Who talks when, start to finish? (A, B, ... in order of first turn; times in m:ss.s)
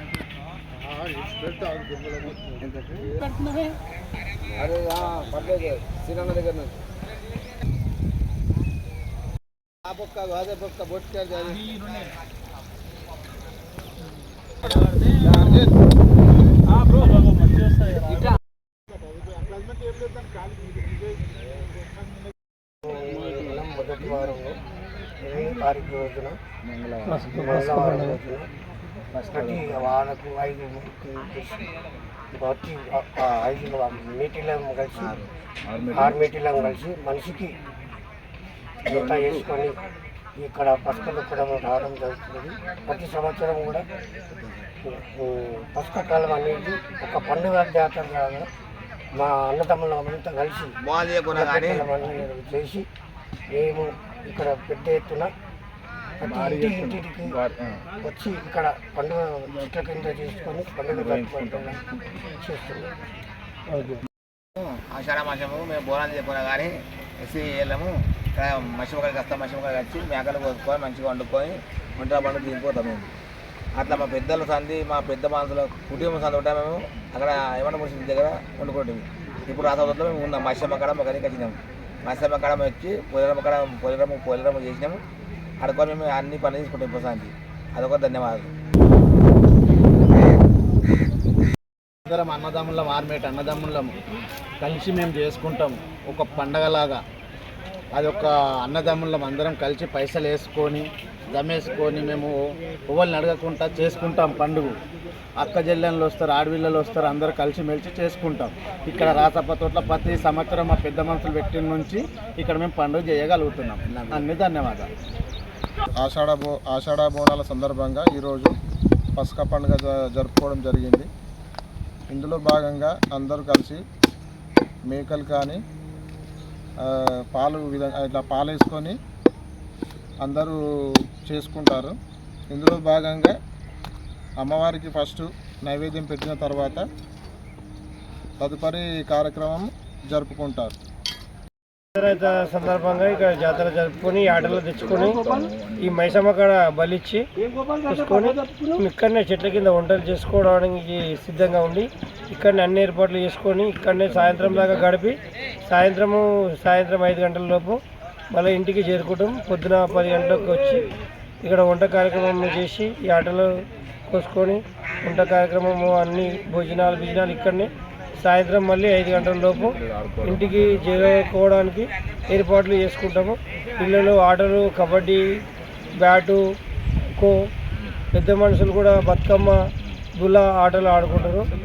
0:01.8-0:02.2 A
0:04.5-0:06.7 B
0:09.9-0:11.7 A
0:15.3-0:15.6 A
0:19.7-0:20.3 A
0:22.8-0:24.6 C
0:25.2-0:26.4 C
0:26.6-0:27.4 A
0:27.1-0:28.2 D
0:27.3-0:28.5 C
0:29.1-0:29.9 A
0:29.3-0:31.6 C
0:32.3-0:35.2 C
0:35.7-0:36.1 A
0:35.9-0:37.6 C
0:38.8-0:39.8 C
0:39.0-0:39.3 A
0:40.4-0:43.8 C
0:44.8-0:48.5 C
0:49.1-0:50.8 C
0:50.8-0:51.9 B
0:51.4-0:52.9 C
0:53.5-0:55.3 C
0:56.2-0:57.4 C
0:56.2-0:57.8 A
0:58.0-1:01.8 C
1:00.9-1:01.7 A
1:02.4-1:02.9 C
1:03.7-1:04.0 D
1:04.6-1:13.1 B
1:13.8-1:25.0 B
1:25.6-1:28.5 B
1:32.1-1:33.9 A
1:34.6-1:37.0 A
1:37.9-1:42.3 A
1:42.9-1:44.7 A
1:45.4-1:54.9 A
1:56.0-1:58.6 E
1:59.2-2:01.1 E
2:02.1-2:03.8 E
2:04.9-2:05.6 E
2:06.8-2:09.0 E
2:10.2-2:11.9 E
2:12.5-2:13.3 E
2:14.4-2:16.8 E
2:18.4-2:20.7 E
2:21.9-2:27.3 D
2:27.8-2:40.9 D
2:41.4-2:55.4 D
2:56.0-2:56.4 D
2:57.2-2:57.5 D
2:58.1-2:59.6 D
3:00.2-3:01.5 D